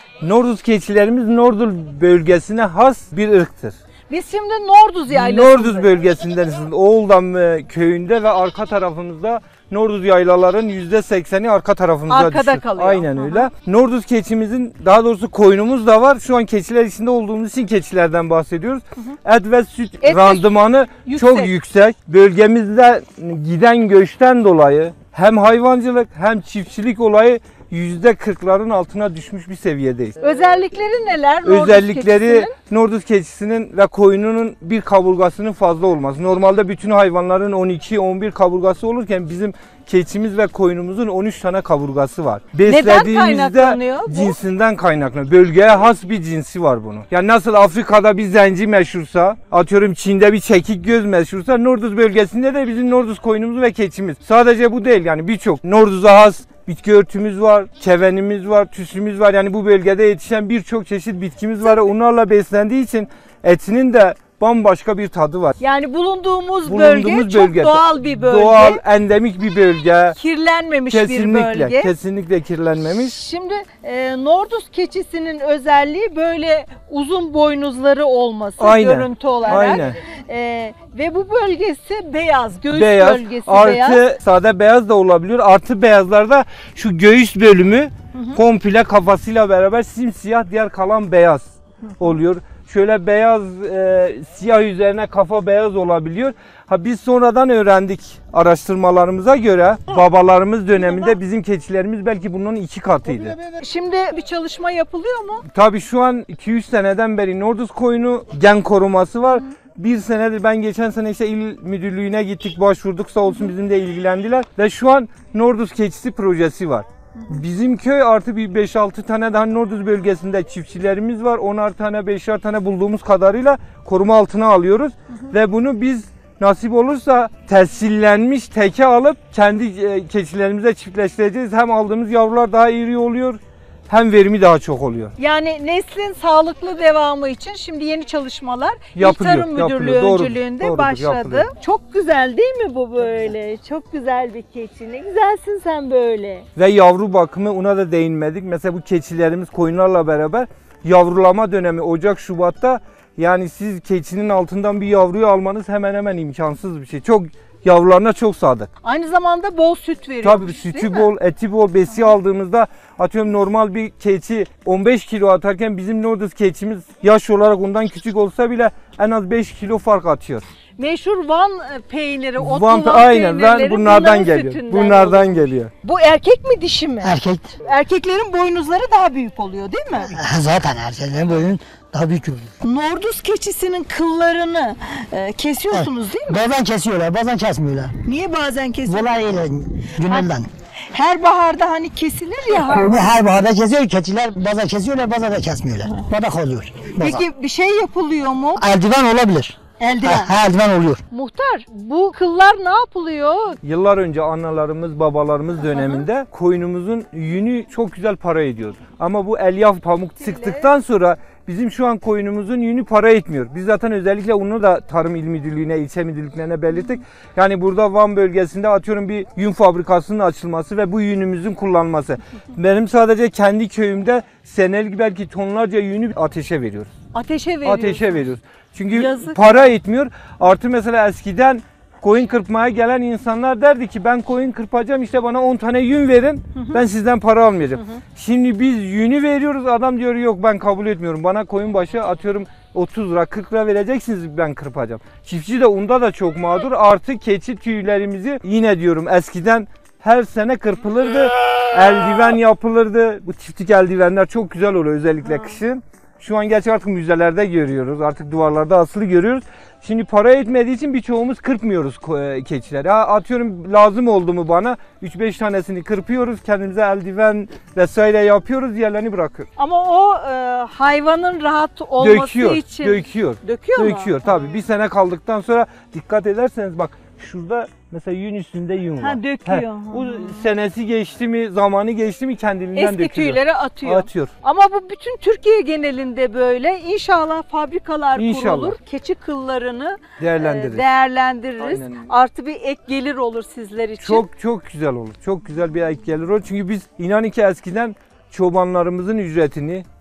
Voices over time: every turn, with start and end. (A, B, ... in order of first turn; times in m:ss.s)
0:00.2-0:03.8 A
0:04.1-0:05.9 B
0:05.1-0:30.2 A
0:12.1-0:13.5 B
0:20.0-0:20.5 B
0:21.0-0:21.5 B
0:30.2-0:32.5 B
0:31.4-1:05.6 A
0:42.7-0:44.4 B
1:05.6-1:08.8 B
1:06.7-1:10.2 A
1:10.2-1:11.9 B
1:10.9-1:13.2 A
1:12.9-1:24.0 B
1:18.6-1:20.0 A
1:22.7-1:43.4 A
1:43.6-1:45.4 B
1:45.5-2:15.2 A
2:15.2-2:26.5 B
2:19.0-2:21.5 A
2:26.6-2:38.7 A
2:38.8-2:41.1 B
2:40.2-2:50.5 A
2:50.8-3:00.2 B
2:52.4-2:55.7 A
2:57.0-2:57.5 C
3:00.1-3:02.5 C
3:02.6-3:06.4 B
3:05.7-3:07.9 C
3:08.0-3:09.3 B
3:08.9-3:10.5 C
3:10.0-3:10.3 B
3:10.9-3:13.2 B
3:12.6-3:17.2 C
3:17.0-3:18.6 B
3:18.6-3:21.0 C
3:19.8-3:20.4 B
3:21.1-3:23.6 B
3:23.6-3:46.9 A
3:25.8-3:26.0 B
3:30.2-3:30.7 B
3:47.1-3:48.2 B
3:47.6-4:29.5 A
3:48.9-3:49.7 B
3:56.6-3:56.8 B
4:29.6-4:34.1 B
4:32.0-4:44.3 A
4:39.0-4:40.5 B
4:42.8-4:54.2 B
4:48.2-4:48.8 A
4:50.2-4:50.8 A
4:51.6-4:52.1 A
4:54.0-4:59.8 A